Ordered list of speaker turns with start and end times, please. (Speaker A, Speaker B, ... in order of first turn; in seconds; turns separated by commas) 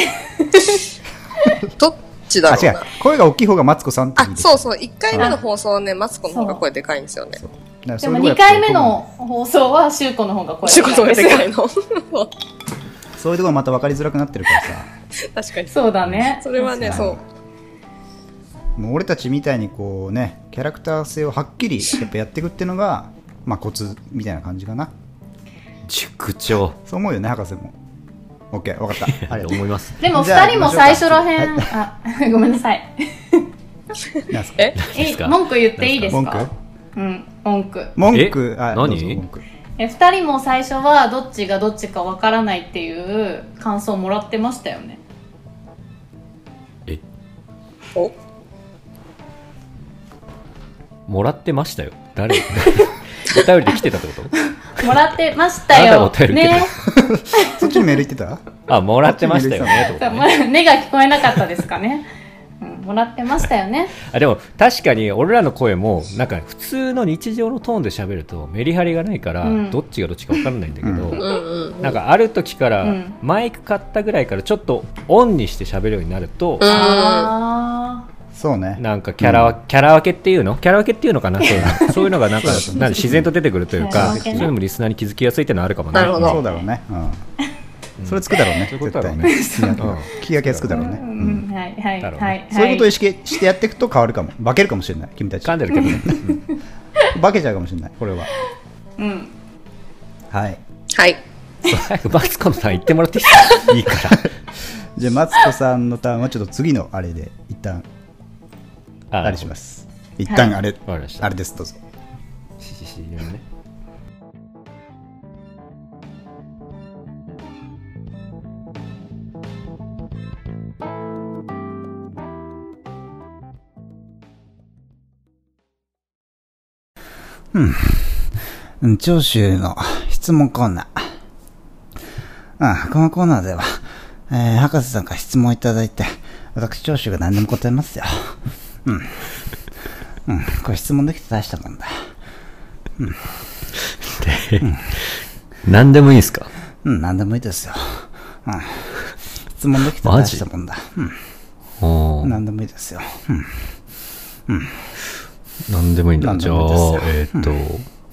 Speaker A: 0.4-0.8, Speaker B: 1.8-2.9, Speaker C: 2.4-5.3, Speaker B: 4.2-7.4, Speaker A: 6.3-6.6, Speaker C: 7.4-9.0, Speaker A: 8.0-11.5, Speaker B: 10.7-12.3, Speaker C: 13.2-14.9, Speaker B: 15.2-15.7, Speaker A: 15.7-17.1, Speaker B: 16.3-17.2, Speaker C: 16.8-17.2, Speaker C: 18.8-24.9, Speaker D: 25.9-26.8, Speaker C: 26.8-27.7, Speaker C: 28.5-31.7, Speaker D: 29.1-29.9, Speaker A: 30.0-33.5, Speaker B: 34.1-34.8, Speaker C: 34.3-34.8, Speaker D: 34.8-36.2, Speaker A: 34.9-37.9, Speaker C: 36.1-36.5, Speaker C: 38.0-39.4, Speaker D: 38.1-39.2, Speaker A: 39.8-45.0, Speaker D: 51.1-54.9, Speaker A: 54.8-56.7, Speaker D: 55.7-56.8, Speaker C: 56.9-58.4, Speaker A: 57.3-57.8, Speaker D: 58.7-60.2, Speaker C: 59.0-60.0, Speaker A: 60.0-62.1, Speaker A: 62.6-63.9, Speaker D: 64.0-71.3, Speaker A: 69.4-69.8, Speaker C: 70.8-71.2, Speaker B: 71.2-72.0, Speaker D: 71.8-76.8, Speaker A: 72.8-73.2, Speaker B: 76.6-77.3, Speaker A: 76.6-78.0, Speaker C: 78.3-79.5, Speaker D: 78.8-86.4, Speaker C: 81.6-83.3, Speaker A: 83.8-84.5, Speaker C: 83.8-84.5, Speaker B: 85.9-86.4, Speaker C: 86.1-87.2, Speaker D: 88.0-91.2, Speaker C: 88.0-91.4, Speaker A: 89.2-89.9, Speaker A: 90.7-92.9, Speaker D: 92.0-92.4, Speaker C: 92.5-96.4, Speaker D: 95.4-96.4, Speaker C: 97.1-98.3, Speaker A: 99.0-99.3, Speaker C: 100.3-100.6, Speaker B: 100.9-101.2, Speaker D: 101.6-104.3, Speaker C: 103.9-104.3, Speaker C: 105.0-107.8, Speaker D: 109.1-109.5, Speaker C: 109.2-111.8, Speaker D: 110.9-111.3, Speaker D: 112.6-113.4, Speaker C: 127.5-131.1, Speaker C: 132.6-139.2, Speaker C: 140.2-142.0, Speaker D: 144.1-144.7, Speaker D: 145.6-146.5, Speaker C: 146.8-148.9, Speaker C: 149.6-151.2, Speaker D: 150.0-150.4, Speaker D: 151.8-152.4, Speaker C: 152.2-153.6, Speaker C: 154.5-154.8, Speaker D: 155.7-157.8, Speaker C: 156.2-157.6